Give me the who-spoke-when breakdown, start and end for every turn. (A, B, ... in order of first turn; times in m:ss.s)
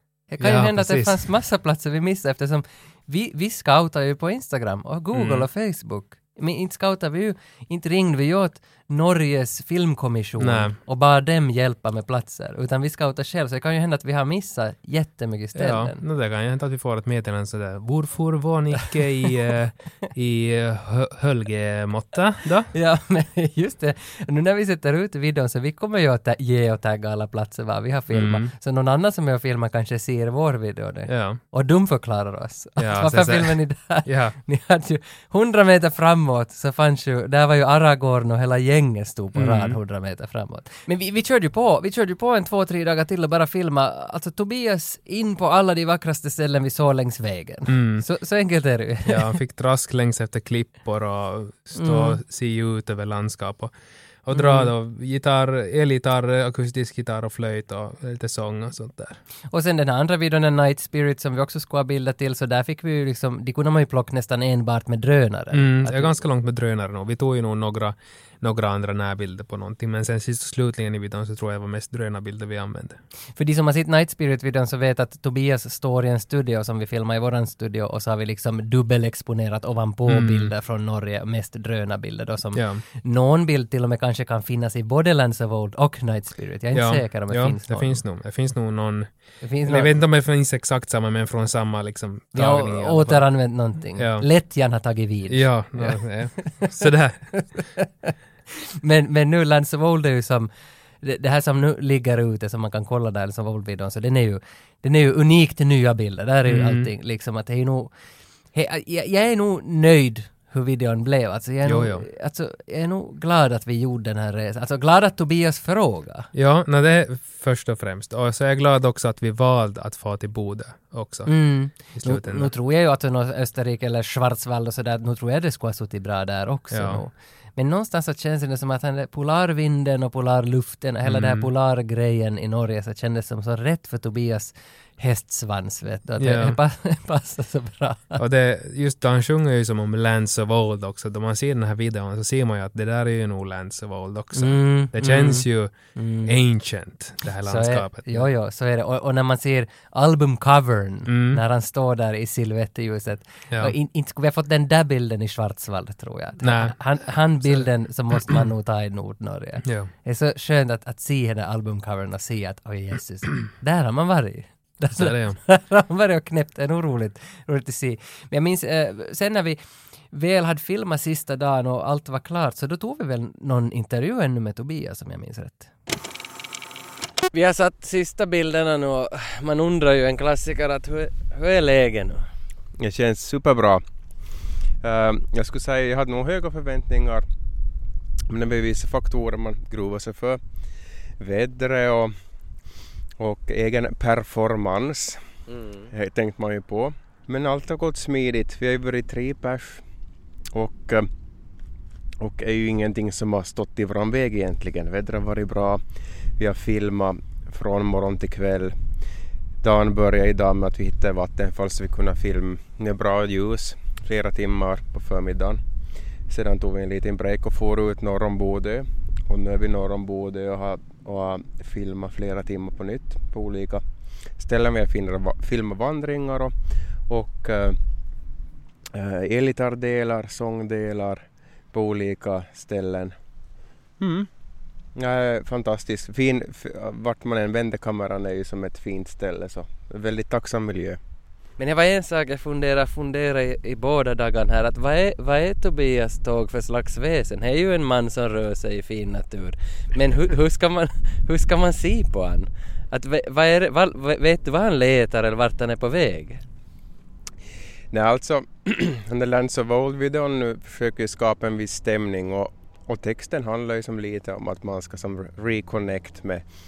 0:00.3-0:16.0 A
0:00.4-0:01.2 B
0:05.1-0:05.5 B
0:10.4-0:10.8 B
0:15.5-0:22.7 B
0:22.7-0:49.3 A
0:28.1-0:28.5 B
0:31.1-0:31.4 B
0:32.8-0:34.4 B
0:39.3-0:39.8 B
0:47.7-0:48.0 B
0:49.0-0:59.2 B
0:51.8-0:52.2 A
0:54.3-0:54.7 A
0:59.5-1:06.2 A
1:05.5-1:13.0 B
1:13.4-1:28.0 A
1:20.1-1:20.5 B
1:22.5-1:22.8 B
1:26.7-1:34.3 B
1:29.4-1:29.9 A
1:32.3-1:38.1 A
1:35.3-1:37.6 B
1:38.8-1:47.9 A
1:46.4-1:46.9 B
1:48.5-1:56.3 A
1:51.6-1:52.0 B
1:56.3-2:02.5 B
2:01.2-2:18.2 A
2:06.7-2:07.0 B
2:11.0-2:11.5 B
2:16.2-2:16.6 B
2:18.2-2:28.3 B
2:24.4-2:26.4 A
2:27.4-2:55.7 A
2:31.0-2:31.4 B
2:36.4-2:37.7 B
2:38.2-2:38.4 B
2:39.6-2:39.9 B
2:44.9-2:45.4 B
2:57.3-3:02.3 A
3:02.8-3:03.8 C
3:04.8-3:07.2 C
3:08.3-3:10.4 C
3:11.2-3:12.1 C
3:13.2-3:19.8 C
3:20.5-3:21.1 C
3:22.2-3:25.8 C
3:26.4-3:28.7 C
3:29.6-3:35.6 C
3:36.3-3:43.8 C
3:44.4-3:46.5 C
3:47.0-3:47.8 C
3:48.9-3:53.2 C
3:54.0-3:54.3 C
3:54.9-4:01.0 C
4:01.6-4:16.4 A
4:17.9-4:26.4 C